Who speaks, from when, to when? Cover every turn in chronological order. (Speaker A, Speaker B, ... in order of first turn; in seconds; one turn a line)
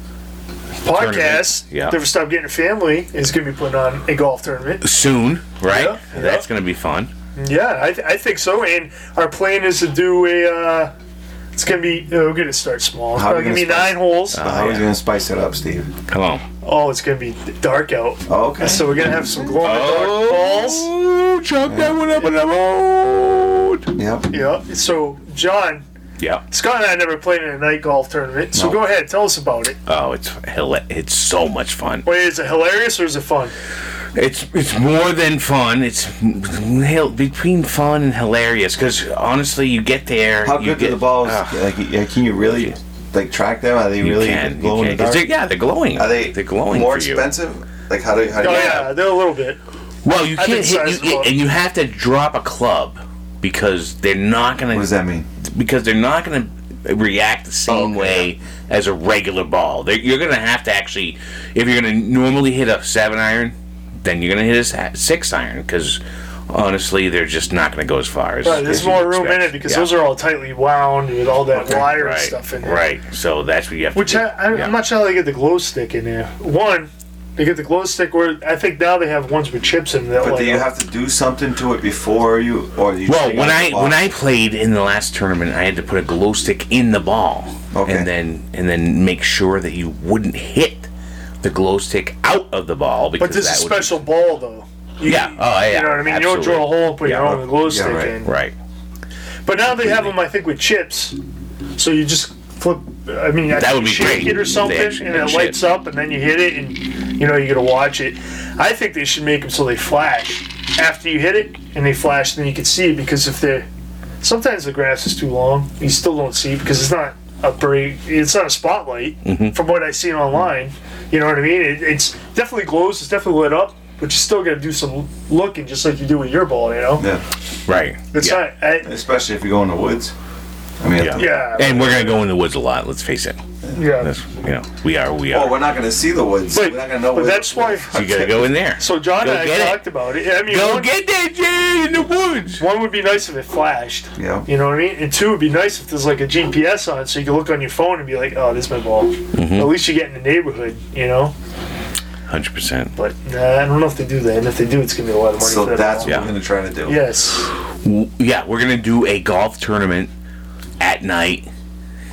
Speaker A: 0.8-4.8
Speaker B: 0.9-2.0
Speaker B: 4.8-7.1
Speaker A: 5.7-6.5
Speaker A: 7.4-10.9
Speaker A: 11.5-14.5
Speaker C: 13.1-15.9
Speaker B: 14.3-14.9
Speaker B: 16.1-16.4
Speaker A: 16.6-20.9
Speaker C: 18.3-19.0
Speaker B: 19.6-23.9
Speaker C: 21.6-22.0
Speaker C: 23.9-24.3
Speaker A: 24.3-25.8
Speaker A: 26.5-29.8
Speaker B: 29.9-32.0
Speaker A: 32.0-33.5
Speaker B: 34.1-41.6
Speaker C: 40.4-45.3
Speaker B: 44.0-47.2
Speaker C: 46.0-48.9
Speaker A: 48.4-49.6
Speaker B: 48.4-48.9
Speaker B: 50.0-69.9
Speaker A: 50.3-51.3
Speaker C: 54.7-55.3
Speaker C: 57.7-58.3
Speaker A: 68.4-72.8
Speaker C: 68.5-69.0
Speaker B: 71.6-74.7
Speaker A: 73.9-80.7
Speaker C: 80.2-84.1
Speaker B: 83.0-90.9
Speaker C: 87.7-88.1
Speaker B: 91.4-94.0
Speaker A: 93.2-98.3
Speaker B: 95.0-97.5
Speaker C: 97.6-98.1
Speaker B: 98.2-98.5
Speaker A: 99.5-101.2
Speaker B: 99.8-100.1
Speaker A: 101.8-113.7
Speaker B: 103.5-105.6
Speaker A: 114.2-127.1
Speaker B: 119.2-119.5
Speaker C: 127.0-127.2
Speaker B: 127.7-128.4
Speaker A: 128.1-128.9
Speaker C: 128.8-130.1
Speaker C: 130.8-131.4
Speaker B: 131.0-133.4
Speaker A: 131.1-132.2
Speaker A: 133.7-134.1
Speaker B: 134.0-135.6
Speaker C: 135.3-138.6
Speaker A: 136.5-137.9
Speaker B: 137.9-142.6
Speaker A: 138.8-140.9
Speaker A: 142.6-151.3
Speaker C: 144.2-144.5
Speaker B: 149.3-149.8
Speaker B: 152.3-152.9
Speaker A: 152.9-156.1
Speaker C: 155.4-157.0
Speaker A: 156.9-157.5
Speaker B: 157.8-160.1
Speaker B: 160.8-161.5